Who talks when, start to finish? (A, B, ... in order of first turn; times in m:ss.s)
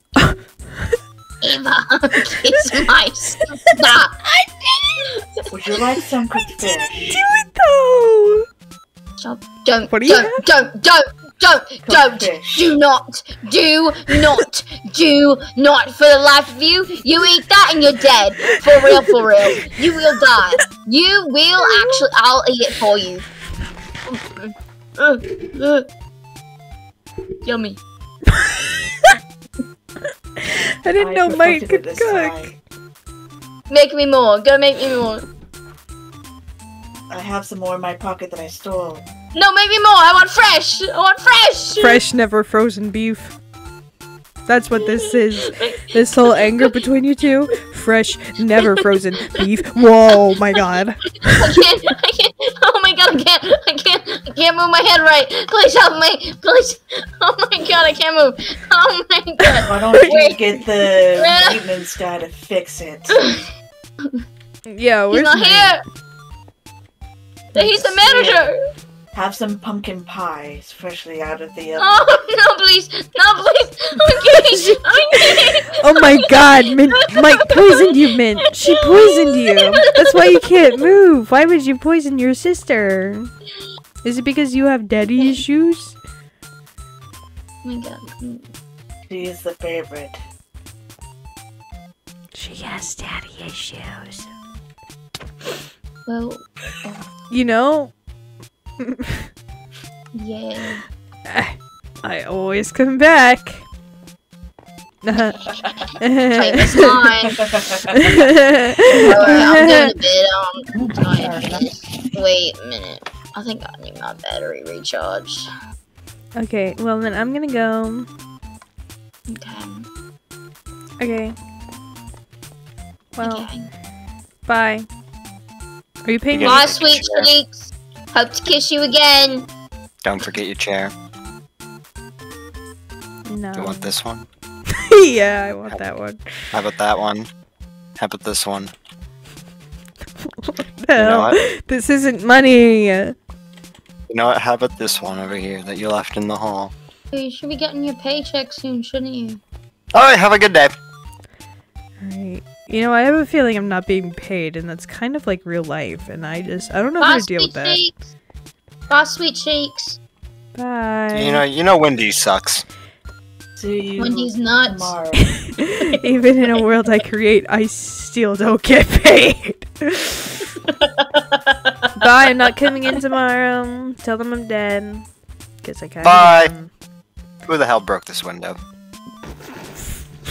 0:01.4-0:04.2 A
0:04.3-0:05.0 B
0:05.0-0:05.4 A
0:05.5-0:07.2 C
0:07.1-0:08.5 B
0:09.2-0:23.3 A
0:09.9-0:10.4 B
0:11.8-0:12.8 C
0:21.6-0:22.0 B
0:24.1-0:25.9 A
0:27.4-0:27.8 A
0:28.3-0:29.2 B
0:30.4-0:32.5 B
0:31.0-0:32.6 C
0:33.7-0:35.3 A
0:37.1-0:39.0 C
0:39.3-0:42.0 A
0:41.8-0:43.3 B
0:44.5-0:51.4 B
0:44.8-0:45.8 A
0:46.4-0:46.7 A
0:48.6-0:49.4 A
0:51.2-1:01.6 A
0:59.5-1:00.2 B
0:59.6-1:03.4 C
1:04.7-1:05.8 B
1:05.1-1:05.8 A
1:07.5-1:08.5 C
1:07.5-1:08.6 A
1:09.1-1:12.0 C
1:11.8-1:20.6 A
1:14.1-1:23.3 B
1:24.0-1:26.0 B
1:25.2-1:25.4 A
1:27.6-1:28.5 A
1:29.1-1:30.2 C
1:32.3-1:34.3 B
1:36.1-1:37.0 A
1:37.3-1:37.9 B
1:38.8-1:39.2 B
1:40.1-1:40.8 A
1:41.3-1:43.6 B
1:45.0-1:45.4 B
1:45.1-1:47.4 A
1:45.5-1:45.9 C
1:46.0-1:46.9 B
1:47.2-1:48.3 C
1:47.9-1:49.9 B
1:49.0-1:49.4 C
1:49.0-1:55.5 A
1:50.7-1:51.7 C
1:56.4-1:58.1 B
1:59.3-1:59.9 A
2:01.0-2:01.4 B
2:03.2-2:03.5 B
2:03.2-2:03.7 A
2:04.5-2:04.9 B
2:06.0-2:06.6 B
2:06.3-2:07.3 D
2:06.4-2:09.5 A
2:10.0-2:10.9 D
2:13.3-2:13.9 B
2:13.6-2:14.3 D
2:14.7-2:16.5 B
2:16.5-2:17.3 D
2:18.0-2:18.7 D
2:20.2-2:23.2 B
2:21.0-2:21.4 D
2:24.1-2:26.7 D
2:27.1-2:29.4 A
2:29.9-2:30.8 D
2:32.0-2:37.8 B
2:37.0-2:38.0 A
2:38.9-2:40.0 A
2:40.6-2:41.4 B
2:41.1-2:42.6 D
2:43.6-2:45.3 C
2:44.0-2:45.0 A
2:45.2-2:50.5 B
2:50.6-2:51.4 A
2:52.0-2:55.1 B
2:55.6-2:56.7 B
2:56.0-2:56.5 D
2:57.5-2:58.6 D